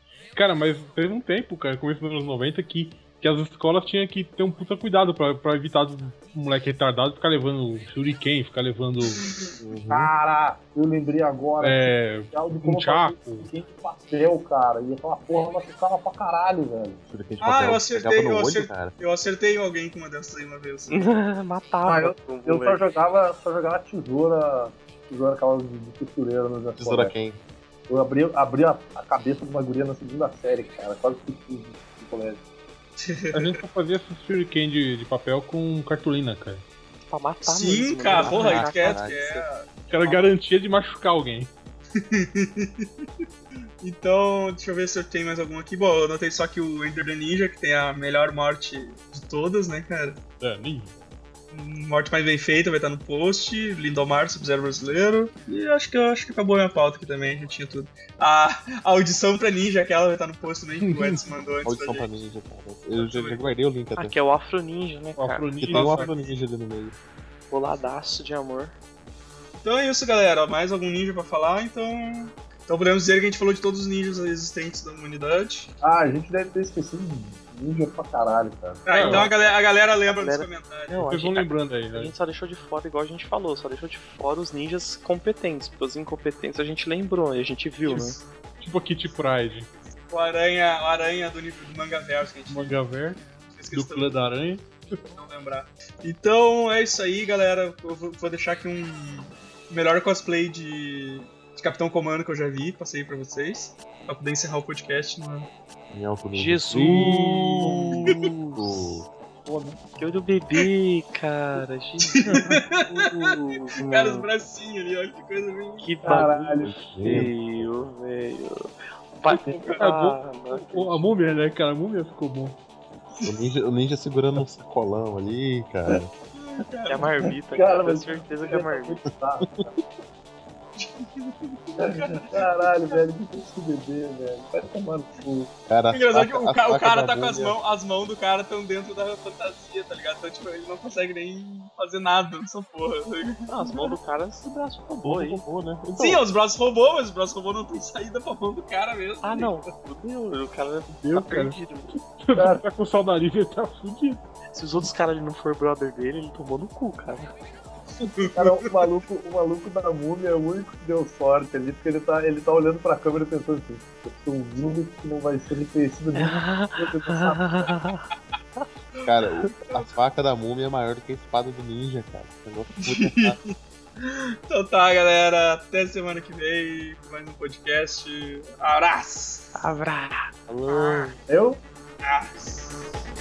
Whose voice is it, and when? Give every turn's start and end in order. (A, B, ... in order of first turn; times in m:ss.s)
0:00.4-0:09.4 A
0:09.6-0:10.1 B
0:09.9-0:17.0 C
0:11.6-0:13.5 A
0:17.1-0:19.0 B
0:17.4-0:21.1 D
0:20.9-0:22.8 E
0:21.8-0:27.2 C
0:26.8-0:27.4 B
0:27.9-0:32.4 C
0:33.0-0:33.6 D
0:33.3-0:36.6 A
0:37.1-0:39.4 E
0:37.4-0:40.3 D
0:38.2-0:39.2 B
0:39.9-0:41.5 A
0:41.9-0:42.9 D
0:43.8-0:50.2 D
0:50.4-0:50.9 A
0:51.5-1:02.1 D
1:00.8-1:01.2 A
1:01.6-1:04.2 B
1:03.0-1:03.4 D
1:04.0-1:06.1 E
1:05.2-1:06.2 A
1:05.6-1:06.9 B
1:07.5-1:08.7 E
1:09.6-1:15.7 D
1:15.8-1:18.8 C
1:18.9-1:21.0 D
1:18.9-1:19.3 A
1:18.9-1:28.2 E
1:21.0-1:22.1 A
1:27.8-1:28.2 D
1:28.6-1:29.7 A
1:30.1-1:32.7 D
1:32.5-1:33.2 A
1:33.5-1:34.2 D
1:33.7-1:35.0 A
1:35.1-1:45.5 D
1:45.9-1:49.1 B
1:46.3-1:48.9 E
1:49.4-1:50.0 C
1:50.0-1:54.3 E
1:52.2-1:53.3 D
1:52.3-1:52.6 C
1:53.8-1:55.9 D
1:55.8-2:01.1 E
1:56.0-1:57.3 C
1:56.6-1:57.7 B
1:59.8-2:02.6 A
2:03.1-2:03.5 C
2:03.2-2:06.1 B
2:06.4-2:07.2 D
2:06.9-2:09.0 E
2:07.5-2:09.7 C
2:09.4-2:09.8 B
2:10.8-2:12.9 D
2:11.8-2:15.5 C
2:15.7-2:17.6 B
2:15.9-2:23.4 D
2:23.5-2:25.4 E
2:25.0-2:26.2 B
2:26.0-2:29.6 D
2:29.2-2:31.9 E
2:31.0-2:34.2 A
2:32.3-2:32.6 C
2:34.5-2:37.3 E
2:38.0-2:38.9 D
2:38.4-2:47.7 C
2:46.2-2:48.6 E
2:49.0-2:53.4 B
2:52.8-2:59.6 D
2:59.6-3:01.2 E
3:00.5-3:01.2 B
3:01.3-3:01.6 C
3:02.0-3:02.8 D